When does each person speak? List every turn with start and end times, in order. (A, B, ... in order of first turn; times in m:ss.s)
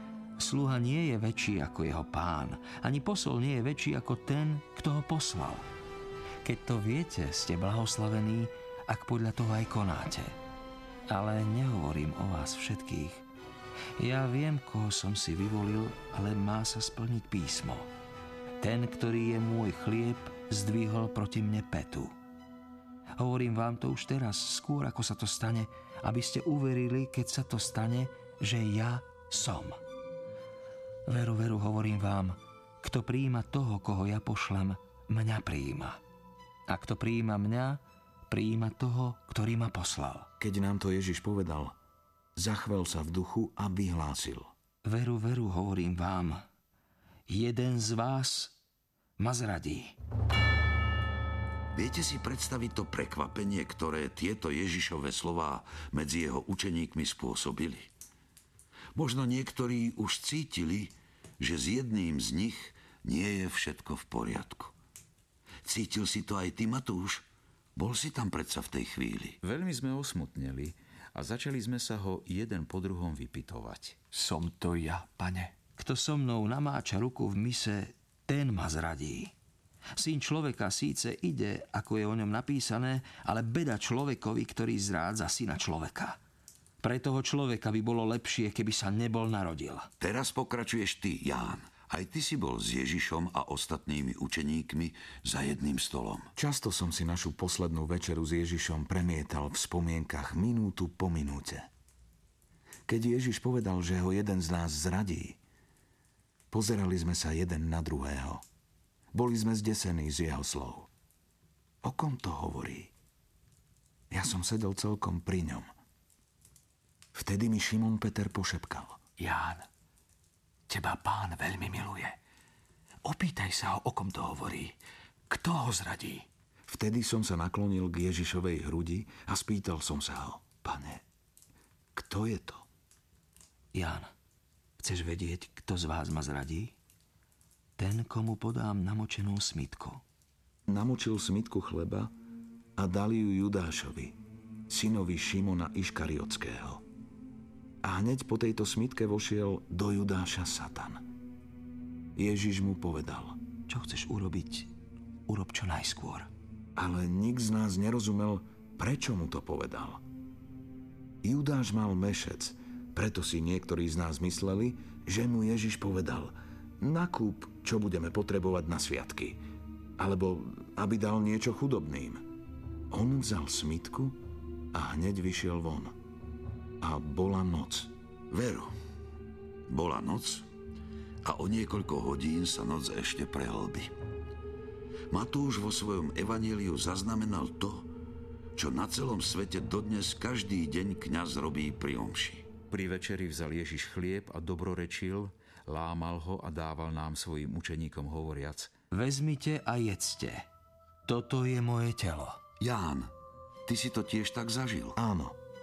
0:00.4-0:05.7 A
0:06.4-0:10.4 A
0:11.1-0:13.2 A
0:14.0-0:17.9 A
0:18.6-0:22.1 A
0:23.2-0:29.8 A
0:31.1-0:36.0 A
0:36.7-0:40.3 A
0:40.4-0:41.7 B
0:42.4-0:44.5 B
0:44.8-0:46.4 A
0:47.3-0:48.6 A
0:49.2-0:49.9 A
0:51.7-0:57.9 C
0:58.9-1:04.7 C
1:05.6-1:09.4 C
1:09.4-1:14.0 D
1:14.1-1:15.5 E
1:15.8-1:19.3 A
1:20.0-1:26.2 A
1:26.8-1:29.9 A
1:30.0-1:36.3 C
1:36.4-1:41.7 B
1:42.9-1:45.4 B
1:46.5-1:48.4 B
1:49.1-1:50.9 B
1:51.8-1:52.9 B
1:54.1-1:55.7 B
1:57.1-1:59.0 B
1:59.2-1:59.6 E
2:00.7-2:02.2 E
2:03.0-2:04.8 E
2:05.3-2:06.2 E
2:06.7-2:11.0 B
2:11.9-2:12.6 B
2:13.7-2:14.1 A
2:14.8-2:16.7 A
2:17.8-2:20.0 A
2:20.7-2:22.1 B
2:22.8-2:24.2 B
2:24.7-2:26.8 B
2:27.8-2:31.0 B
2:32.2-2:33.4 B
2:33.7-2:34.7 A
2:35.3-2:36.3 A
2:36.8-2:40.0 B
2:41.2-2:49.4 B
2:50.0-2:52.2 B
2:52.9-2:54.2 B
2:54.7-2:55.9 B
2:56.8-2:57.9 B
2:58.3-2:58.7 C
2:59.7-3:00.4 C
3:01.2-3:03.9 C
3:05.1-3:07.9 C
3:08.6-3:12.5 C
3:12.7-3:18.7 D
3:18.9-3:20.4 A
3:21.1-3:22.4 A
3:22.6-3:23.1 C
3:23.7-3:25.0 C
3:25.0-3:25.4 B